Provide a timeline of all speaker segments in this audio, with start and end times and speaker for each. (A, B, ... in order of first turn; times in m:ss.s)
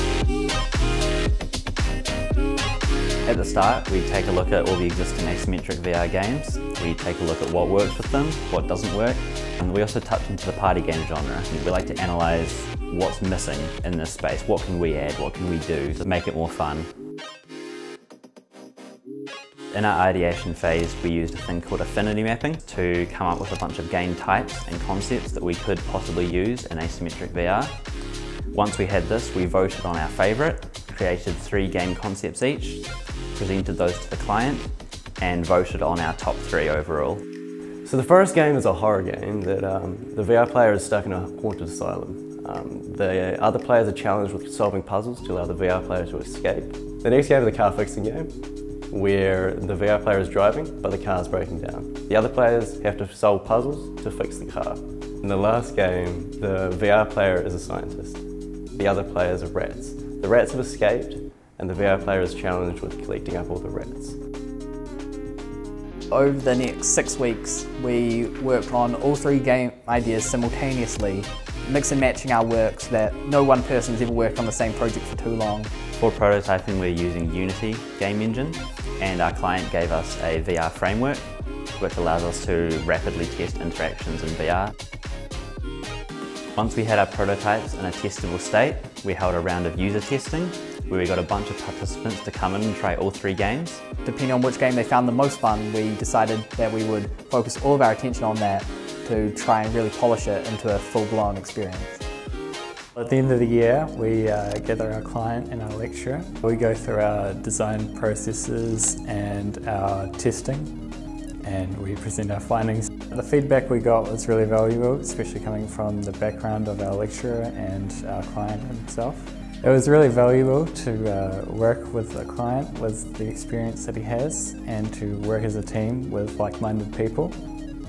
0:03.3-0:16.9 A
0:19.7-0:27.7 A
0:28.5-0:37.2 A
0:37.8-0:48.3 B
0:48.9-0:58.2 B
0:58.8-1:04.2 B
1:06.1-1:15.7 C
1:16.0-1:21.3 A
1:21.8-1:24.7 A
1:26.6-1:33.8 A
1:34.0-1:42.0 C
1:43.0-1:50.7 D
1:51.4-2:07.4 D